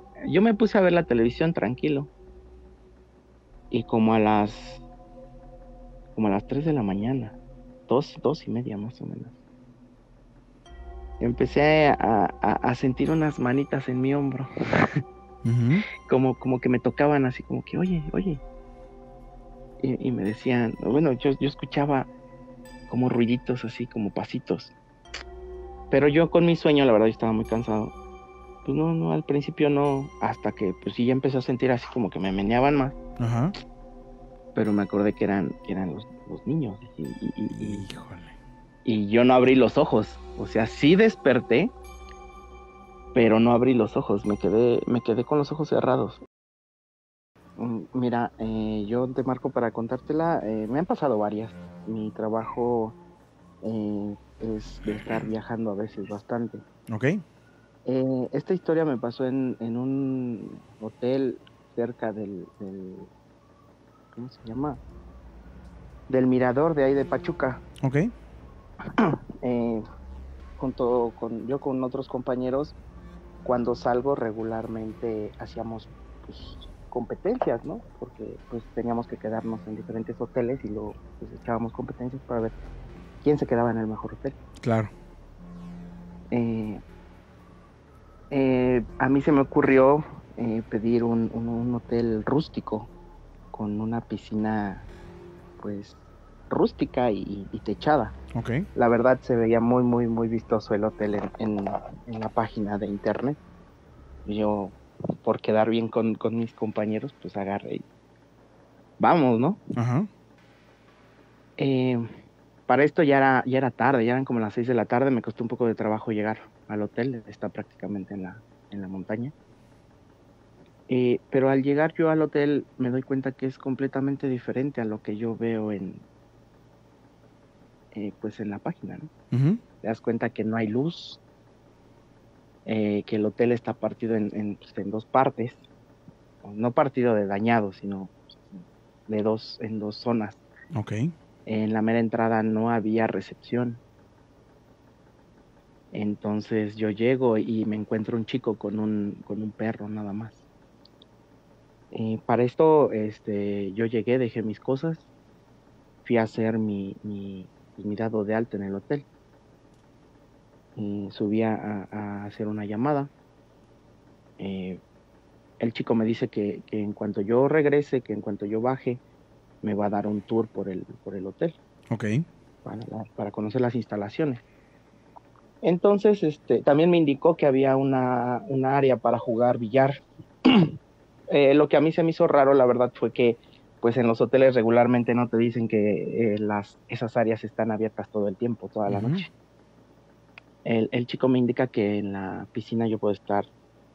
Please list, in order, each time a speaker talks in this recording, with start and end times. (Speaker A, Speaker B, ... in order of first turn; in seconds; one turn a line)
Speaker A: 0.2-2.1
Speaker A: 3.7-4.8
Speaker A: 6.1-9.3
Speaker A: 11.2-14.5
Speaker B: 15.4-15.8
Speaker A: 16.0-18.4
Speaker A: 19.8-22.1
Speaker A: 22.9-24.7
Speaker A: 25.9-27.9
Speaker A: 28.6-33.0
Speaker B: 33.2-33.5
Speaker A: 34.5-37.9
Speaker B: 37.5-38.3
Speaker A: 38.8-41.7
Speaker A: 43.1-46.2
Speaker A: 47.6-53.0
Speaker A: 53.6-56.6
Speaker B: 56.9-57.2
Speaker A: 57.9-63.1
Speaker A: 64.1-64.8
Speaker A: 66.1-67.6
Speaker A: 69.0-69.8
Speaker A: 70.6-72.8
Speaker A: 73.4-82.5
Speaker A: 83.2-84.4
Speaker B: 84.6-84.9
Speaker A: 86.3-86.8
Speaker A: 88.3-92.9
Speaker A: 93.5-94.8
Speaker A: 95.6-98.2
Speaker B: 98.3-98.6
Speaker A: 98.7-103.4
Speaker A: 104.2-107.8
Speaker A: 109.0-109.6
Speaker B: 109.8-110.1
Speaker A: 111.6-112.0
Speaker A: 112.7-119.3
Speaker A: 120.9-126.0
Speaker A: 127.9-129.1
Speaker B: 129.3-129.6
Speaker A: 129.8-131.2
Speaker A: 132.7-135.7
Speaker A: 136.4-140.4
Speaker B: 140.7-141.1
Speaker A: 141.4-143.8
Speaker A: 145.9-150.4
Speaker A: 151.9-155.1
Speaker A: 156.0-159.1
Speaker A: 160.8-163.1
Speaker A: 164.4-164.8
Speaker A: 165.6-169.0
Speaker A: 169.6-171.6
Speaker A: 172.6-174.4
Speaker A: 175.6-180.7
Speaker A: 181.3-189.3
Speaker B: 188.9-189.2
Speaker A: 190.6-193.5